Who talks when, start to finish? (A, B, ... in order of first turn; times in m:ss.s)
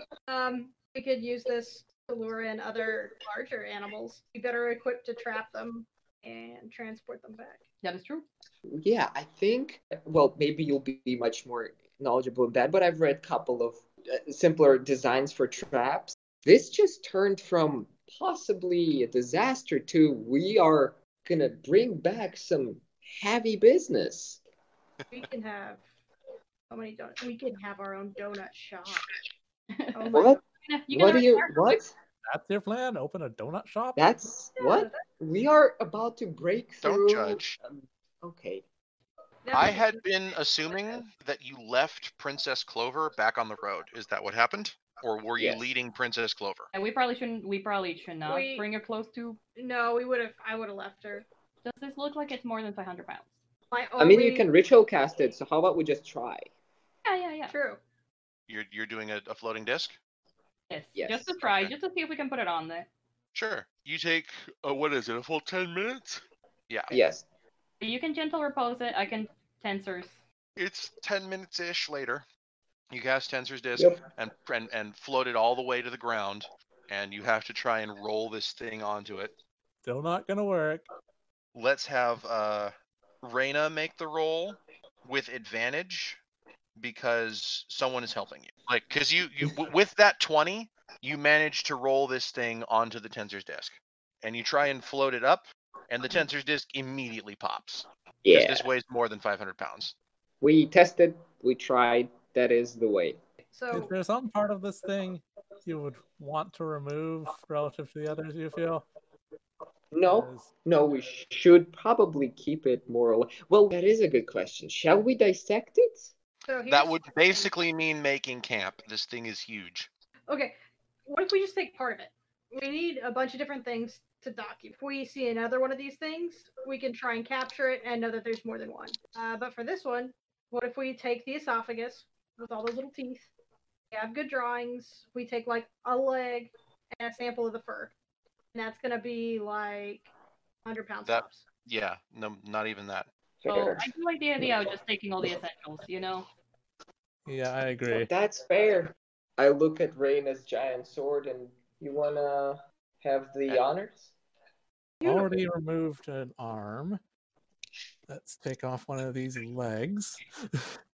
0:00.3-0:07.6 A
0:07.8-0:08.2 B
0:08.7-0:24.4 C
0:25.1-0:25.8 A
0:26.7-0:29.0 A
0:29.7-0:31.8 B
0:29.9-0:30.4 A
0:30.1-0:30.4 C
0:30.9-0:31.9 C
0:32.3-0:34.0 D
0:34.0-0:38.6 C
0:34.6-0:35.0 A
0:36.8-0:37.6 E
0:39.4-0:40.0 A
0:39.5-0:46.7 E
0:45.4-0:45.7 C
0:46.7-0:49.4 B
0:48.2-0:48.6 A
0:49.6-0:51.2 A
0:51.6-0:53.3 B
0:53.7-0:54.5 A
0:54.0-0:56.5 C
0:57.0-0:57.5 B
0:57.5-0:57.8 A
0:58.5-1:00.0 E
1:00.7-1:02.9 B
1:00.9-1:01.4 C
1:01.4-1:01.7 E
1:03.3-1:07.0 E
1:06.9-1:07.2 C
1:07.8-1:10.2 B
1:10.6-1:12.2 E
1:12.9-1:19.3 E
1:13.8-1:14.0 C
1:19.8-1:20.8 D
1:21.5-1:26.2 E
1:26.8-1:39.9 E
1:38.2-1:38.7 C
1:40.4-1:43.2 C
1:43.5-1:43.9 A
1:43.7-1:48.8 D
1:49.9-1:56.1 C
1:50.1-1:50.5 D
1:56.5-1:57.5 A
1:56.7-1:59.9 E
2:00.3-2:00.5 A
2:01.1-2:13.3 A
2:13.9-2:17.9 A
2:18.5-2:20.1 A
2:20.6-2:21.4 A
2:21.0-2:23.1 E
2:23.4-2:23.9 C
2:23.5-2:26.3 B
2:27.2-2:28.1 D
2:27.9-2:34.1 C
2:35.0-2:35.3 A
2:35.0-2:37.0 D
2:38.1-2:40.8 D